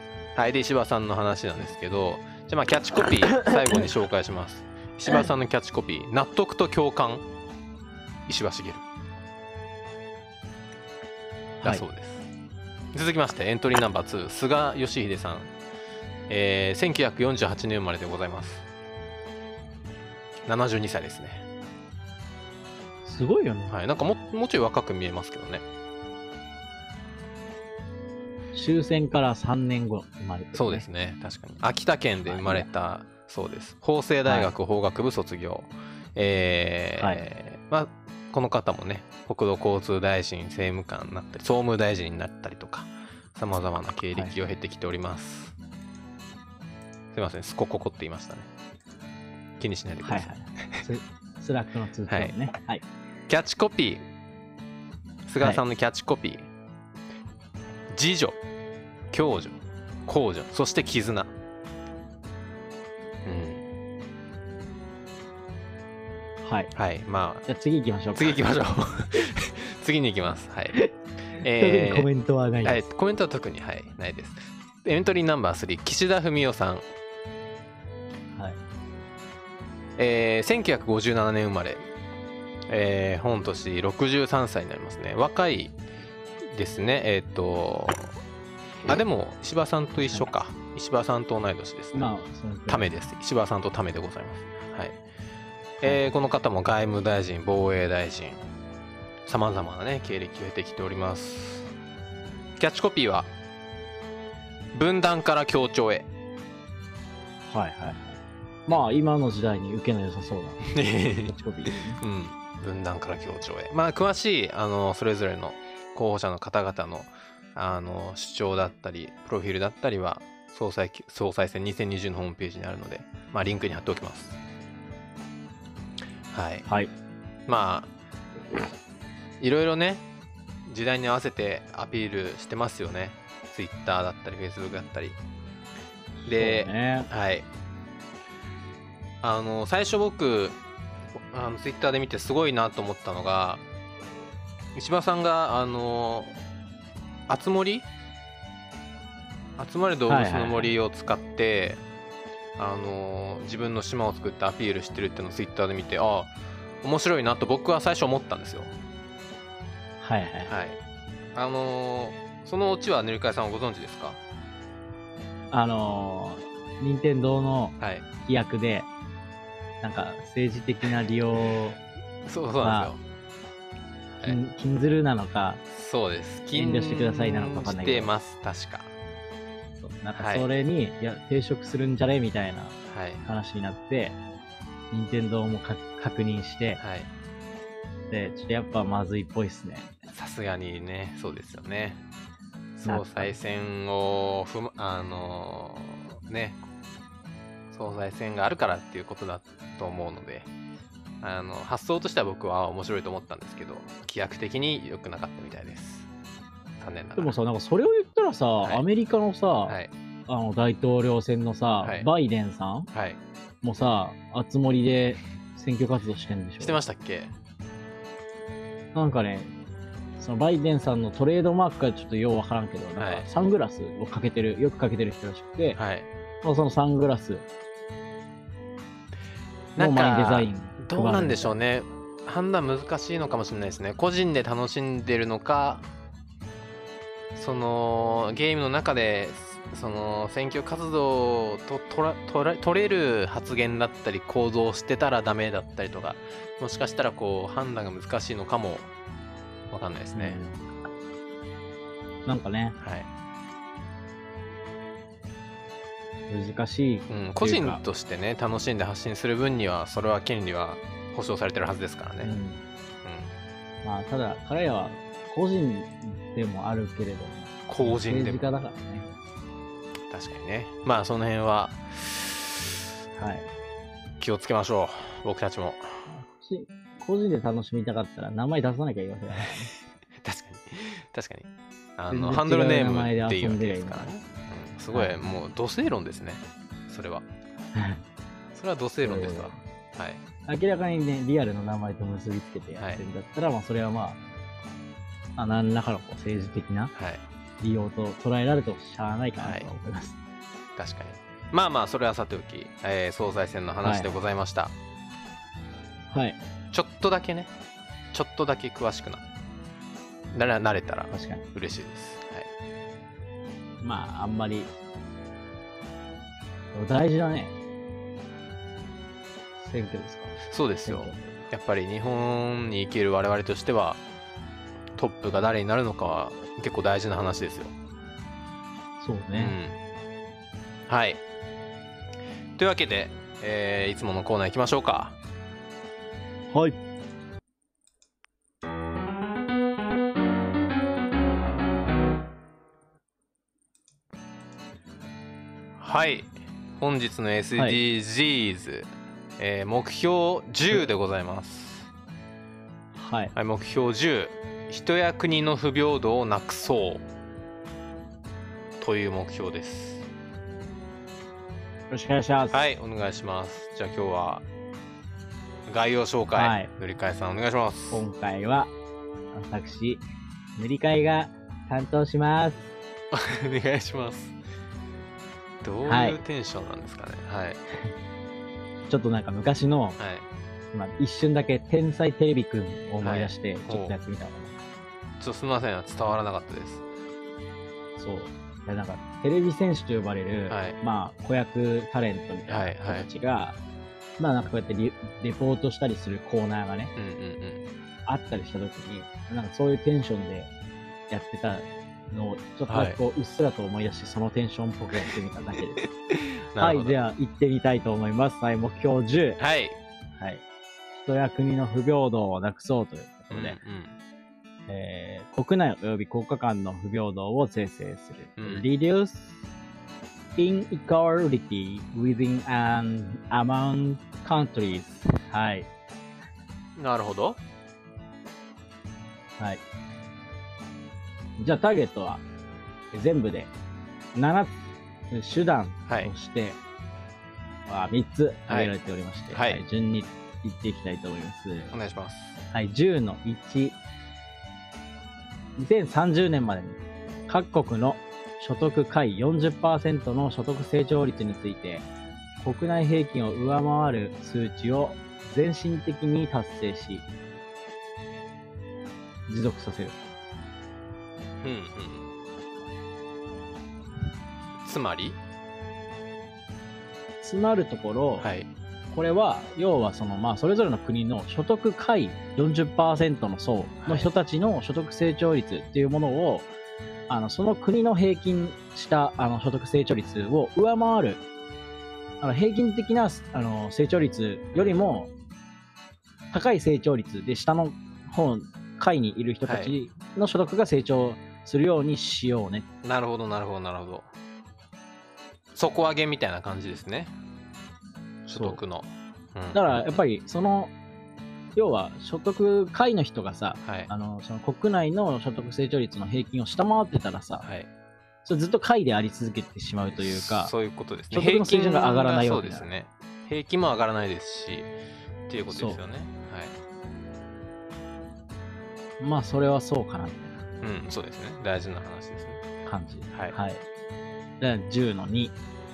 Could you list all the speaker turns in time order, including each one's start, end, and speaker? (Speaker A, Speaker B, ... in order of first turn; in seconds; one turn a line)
Speaker A: 0.3-7.2
Speaker A: 8.3-8.8
Speaker A: 11.6-12.3
Speaker A: 12.9-15.5
Speaker A: 16.3-18.6
Speaker A: 20.5-21.4
Speaker B: 23.0-23.7
Speaker A: 23.7-25.6
Speaker B: 28.5-30.8
Speaker A: 30.5-45.5
Speaker B: 32.2-32.7
Speaker B: 34.2-34.5
Speaker B: 37.0-37.2
Speaker A: 47.1-48.5
Speaker A: 49.6-50.8
Speaker B: 50.0-52.8
Speaker A: 52.1-52.3
Speaker A: 53.3-54.0
Speaker A: 55.2-56.5
Speaker A: 57.9-58.4
Speaker A: 59.1-61.3
Speaker A: 63.2-63.6
Speaker B: 66.4-66.7
Speaker A: 66.7-67.5
Speaker B: 67.5-68.4
Speaker A: 68.2-70.8
Speaker B: 70.7-72.8
Speaker A: 71.3-72.1
Speaker A: 72.6-76.8
Speaker A: 80.0-81.8
Speaker A: 82.7-85.8
Speaker A: 86.5-88.1
Speaker A: 88.8-92.1
Speaker B: 90.0-90.3
Speaker B: 91.9-93.0
Speaker A: 92.7-95.0
Speaker A: 95.8-98.4
Speaker A: 99.2-101.7
Speaker A: 102.6-103.3
Speaker A: 104.7-106.1
Speaker B: 107.5-110.7
Speaker A: 110.7-124.4
Speaker B: 111.2-112.0
Speaker A: 126.3-126.7
Speaker B: 126.7-126.9
Speaker A: 127.5-127.9
Speaker A: 129.4-130.0
Speaker A: 130.7-135.2
Speaker B: 136.2-137.1
Speaker A: 136.2-137.5
Speaker A: 139.2-140.6
Speaker A: 141.3-143.6
Speaker A: 144.7-146.3
Speaker A: 147.3-147.9
Speaker A: 149.6-151.8
Speaker B: 150.1-150.7
Speaker A: 152.6-158.7
Speaker B: 160.0-160.5
Speaker A: 160.4-160.8
Speaker A: 161.3-164.2
Speaker B: 165.5-168.9
Speaker A: 167.8-168.1
Speaker B: 169.8-171.8
Speaker A: 172.2-173.0
Speaker B: 172.6-172.9
Speaker B: 174.2-175.6
Speaker A: 175.7-178.9
Speaker B: 176.5-178.1
Speaker B: 179.8-184.2
Speaker A: 180.1-180.5
Speaker A: 182.9-183.2
Speaker B: 184.9-186.8
Speaker A: 186.8-187.1
Speaker B: 188.1-189.9
Speaker A: 190.1-192.0
Speaker A: 192.8-196.6
Speaker B: 192.8-193.3
Speaker A: 197.7-200.5
Speaker A: 201.2-206.1
Speaker A: 206.8-207.4
Speaker B: 207.2-212.9
Speaker A: 209.7-209.9
Speaker A: 211.8-212.1
Speaker A: 212.9-213.2
Speaker B: 213.6-216.8
Speaker A: 216.6-217.3
Speaker B: 218.9-219.5
Speaker B: 220.2-225.8
Speaker A: 223.0-223.2
Speaker A: 225.8-226.1
Speaker B: 226.4-227.4
Speaker A: 229.8-235.8
Speaker B: 229.8-231.5
Speaker A: 237.3-248.9
Speaker A: 249.7-250.4
Speaker B: 250.1-250.7
Speaker B: 252.2-252.8
Speaker A: 252.8-253.1
Speaker B: 256.3-257.8
Speaker A: 257.1-262.4
Speaker B: 262.2-262.6
Speaker A: 263.0-263.3
Speaker B: 263.8-269.1
Speaker A: 267.7-268.5
Speaker A: 270.1-272.6
Speaker B: 273.1-273.5
Speaker A: 274.2-276.1
Speaker B: 276.1-279.7
Speaker A: 280.2-287.3
Speaker B: 282.1-284.1
Speaker B: 284.9-285.3
Speaker B: 287.7-288.0
Speaker A: 288.5-290.2
Speaker B: 289.0-289.6
Speaker B: 290.4-294.2
Speaker B: 295.4-296.9
Speaker A: 296.9-297.2
Speaker B: 297.6-300.2
Speaker A: 299.4-299.7
Speaker A: 300.8-304.7
Speaker B: 303.8-304.2
Speaker B: 306.1-306.4
Speaker A: 306.7-307.5
Speaker A: 308.1-309.2
Speaker A: 310.3-312.5
Speaker B: 311.1-311.4
Speaker B: 313.8-314.7
Speaker B: 316.7-317.5
Speaker B: 319.6-321.2
Speaker A: 320.4-324.0
Speaker A: 324.9-327.7
Speaker B: 329.0-329.6
Speaker A: 329.4-329.8
Speaker A: 330.9-331.2
Speaker A: 332.6-335.2
Speaker B: 336.5-336.8
Speaker A: 345.8-351.9
Speaker B: 352.9-353.3
Speaker A: 353.3-357.1
Speaker A: 358.8-360.1
Speaker B: 361.9-362.6
Speaker A: 362.5-364.4
Speaker A: 365.7-368.1
Speaker B: 366.4-366.7
Speaker B: 367.9-368.7
Speaker B: 369.3-370.0
Speaker B: 370.6-372.6
Speaker A: 373.1-374.4
Speaker A: 375.6-377.6
Speaker B: 375.9-376.2
Speaker B: 378.9-380.0
Speaker A: 380.0-380.3
Speaker B: 380.7-384.6
Speaker A: 383.0-383.9
Speaker A: 385.2-386.9
Speaker B: 388.0-393.6
Speaker A: 390.5-390.8
Speaker A: 392.5-393.1
Speaker B: 394.2-396.9
Speaker A: 396.9-397.6
Speaker B: 398.1-400.5
Speaker B: 401.1-405.8
Speaker A: 402.7-403.0
Speaker A: 405.8-407.0
Speaker B: 406.6-409.4
Speaker A: 409.4-409.8
Speaker B: 410.2-410.4
Speaker B: 410.9-413.6
Speaker A: 413.3-413.9
Speaker B: 414.7-419.4
Speaker A: 418.4-418.6
Speaker B: 420.4-425.7
Speaker A: 426.8-427.4
Speaker B: 431.4-432.2
Speaker B: 432.9-433.5
Speaker B: 434.1-436.6
Speaker B: 437.7-441.7
Speaker A: 438.5-438.7
Speaker A: 439.3-439.6
Speaker A: 441.7-442.4
Speaker B: 442.5-443.8
Speaker B: 445.6-451.9
Speaker B: 452.4-457.0
Speaker B: 459.3-460.0
Speaker A: 461.4-462.1
Speaker A: 464.6-465.2
Speaker B: 467.2-468.3
Speaker A: 468.2-468.5
Speaker B: 468.9-476.5
Speaker A: 473.8-474.1
Speaker B: 477.1-481.2
Speaker B: 482.2-485.1
Speaker A: 484.5-484.8
Speaker B: 486.3-492.6
Speaker A: 489.4-489.7
Speaker A: 492.8-494.1
Speaker A: 495.5-497.1
Speaker A: 498.3-500.0
Speaker B: 498.3-498.6
Speaker B: 499.5-500.7
Speaker B: 501.5-507.4
Speaker A: 503.6-503.9
Speaker A: 507.4-507.7
Speaker B: 508.2-510.5
Speaker A: 509.9-514.7
Speaker B: 511.1-512.7
Speaker A: 515.3-516.5
Speaker B: 515.5-515.8
Speaker B: 519.0-520.4
Speaker A: 520.6-522.4
Speaker B: 522.6-523.6
Speaker B: 524.4-525.4